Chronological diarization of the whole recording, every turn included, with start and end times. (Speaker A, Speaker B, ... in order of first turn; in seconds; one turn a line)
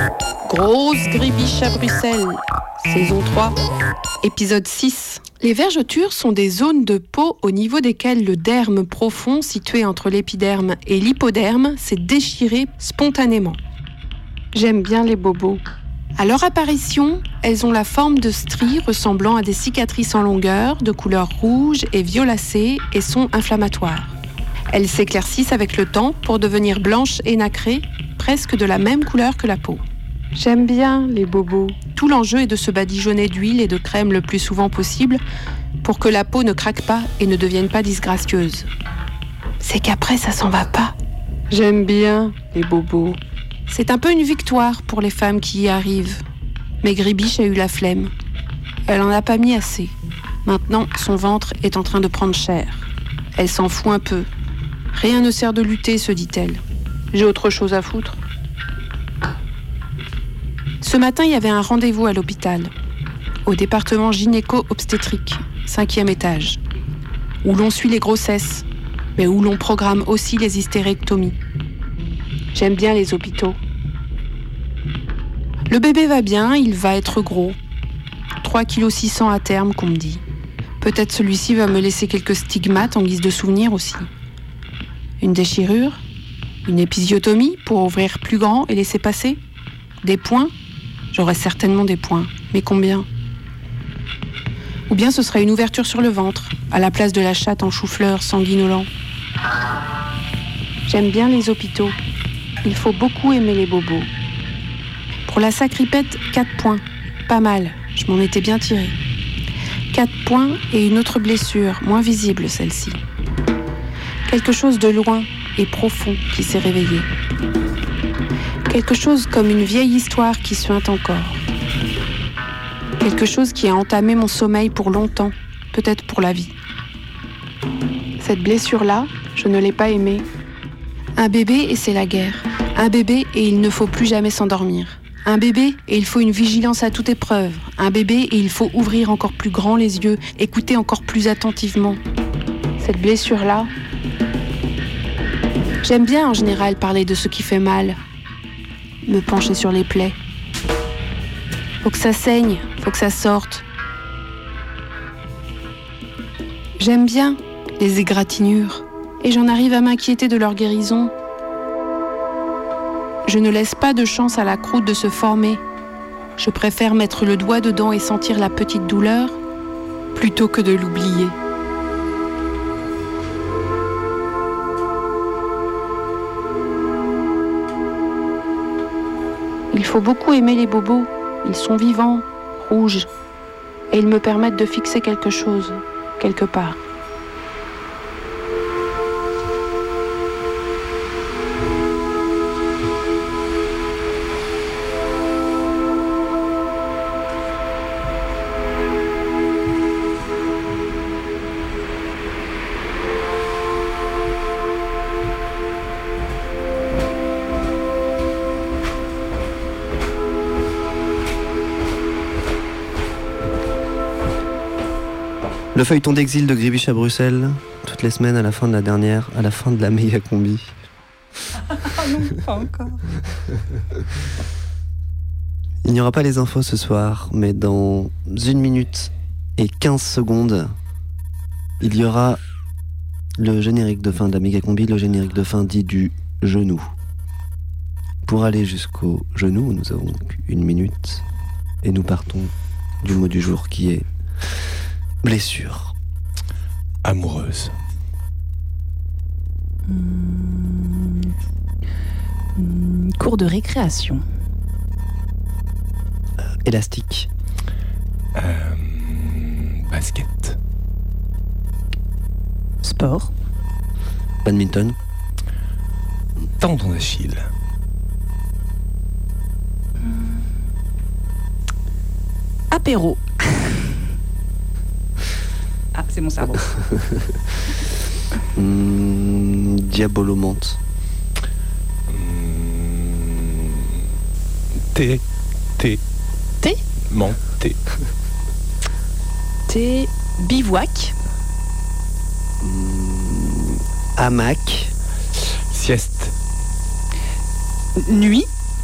Speaker A: 0.5-3.6
Speaker A: 4.2-13.6
Speaker A: 14.5-15.6
Speaker A: 16.2-24.1
Speaker A: 24.7-29.8
Speaker A: 30.3-35.2
Speaker A: 35.8-38.7
Speaker A: 39.6-40.9
Speaker A: 41.5-46.2
Speaker A: 46.8-48.1
Speaker A: 48.9-49.9
Speaker A: 50.4-54.3
Speaker A: 54.9-56.6
Speaker A: 57.1-58.2
Speaker A: 60.8-62.7
Speaker A: 63.4-66.6
Speaker A: 67.4-71.4
Speaker A: 72.5-73.6
Speaker A: 75.7-77.6
Speaker A: 78.4-80.2
Speaker A: 80.8-84.1
Speaker A: 85.2-86.0
Speaker A: 86.6-89.4
Speaker A: 90.0-90.5
Speaker A: 91.1-93.1
Speaker A: 94.9-98.9
Speaker A: 100.8-102.0
Speaker A: 102.6-104.1
Speaker A: 105.2-109.0
Speaker A: 109.9-113.0
Speaker A: 114.3-117.1
Speaker A: 118.7-121.4
Speaker A: 123.0-126.5
Speaker A: 128.2-130.2
Speaker A: 131.2-142.0
Speaker A: 142.8-143.7
Speaker A: 145.8-148.0
Speaker A: 149.1-150.2
Speaker A: 151.8-153.6
Speaker A: 156.8-161.1
Speaker A: 163.2-165.6
Speaker A: 166.4-169.4
Speaker A: 170.1-171.3
Speaker A: 179.7-183.1
Speaker A: 183.9-186.8
Speaker B: 215.7-220.7
Speaker C: 222.0-223.0
Speaker B: 225.8-230.7
Speaker B: 231.8-232.4
Speaker B: 233.4-236.9
Speaker B: 238.2-241.2
Speaker B: 241.8-244.1
Speaker B: 245.2-245.9
Speaker D: 247.0-247.7
Speaker C: 249.9-251.3
Speaker C: 252.6-254.2
Speaker B: 256.4-257.3
Speaker D: 258.4-260.6
Speaker C: 262.8-263.3
Speaker B: 264.4-264.9
Speaker D: 266.6-267.5
Speaker C: 272.7-273.8
Speaker C: 275.9-276.6
Speaker B: 276.7-277.1
Speaker B: 278.6-280.8
Speaker D: 282.1-284.0
Speaker D: 284.9-285.2
Speaker D: 287.1-287.8
Speaker C: 289.7-291.1
Speaker B: 292.6-294.9
Speaker D: 295.7-296.3
Speaker C: 298.0-298.5